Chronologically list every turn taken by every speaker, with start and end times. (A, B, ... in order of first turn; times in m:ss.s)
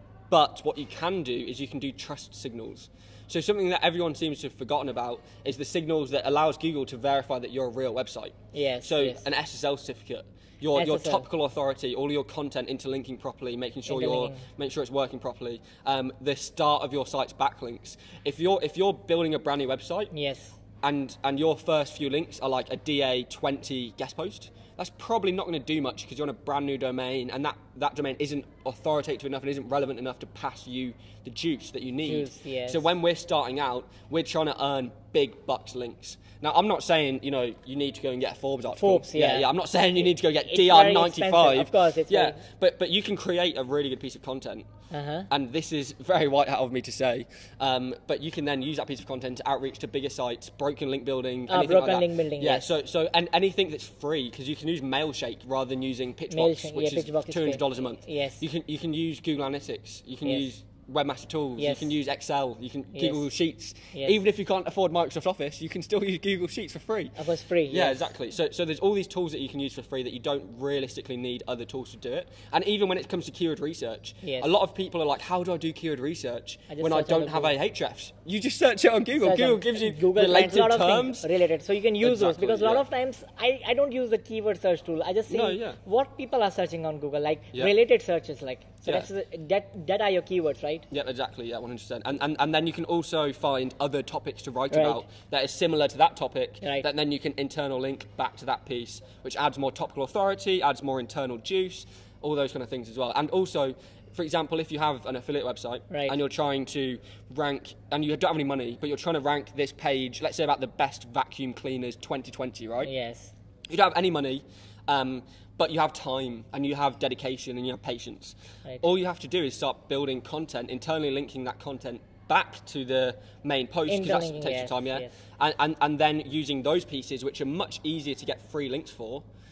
0:00.3-0:20.1 A
0:08.5-0:09.2 B
0:10.7-0:11.2 B
0:13.9-0:14.4 B
0:20.1-0:20.6 B
0:20.8-0:44.7 A
0:32.0-0:32.9 B
0:38.8-0:39.5 B
0:40.1-0:42.4 B
0:44.9-0:45.3 B
0:45.3-1:07.2 A
0:51.5-0:52.7 B
0:56.3-0:58.4 B
1:01.6-1:01.9 B
1:03.0-1:03.3 B
1:07.2-1:08.1 B
1:07.7-1:21.3 A
1:14.2-1:14.5 B
1:16.7-1:17.6 B
1:19.2-1:30.9 B
1:22.0-1:22.8 A
1:25.3-1:25.8 A
1:30.9-1:52.9 A
1:34.7-1:35.1 B
1:36.6-1:36.9 B
1:45.9-1:46.2 B
1:52.8-1:53.3 B
1:53.7-2:09.2 A
2:03.9-2:05.1 B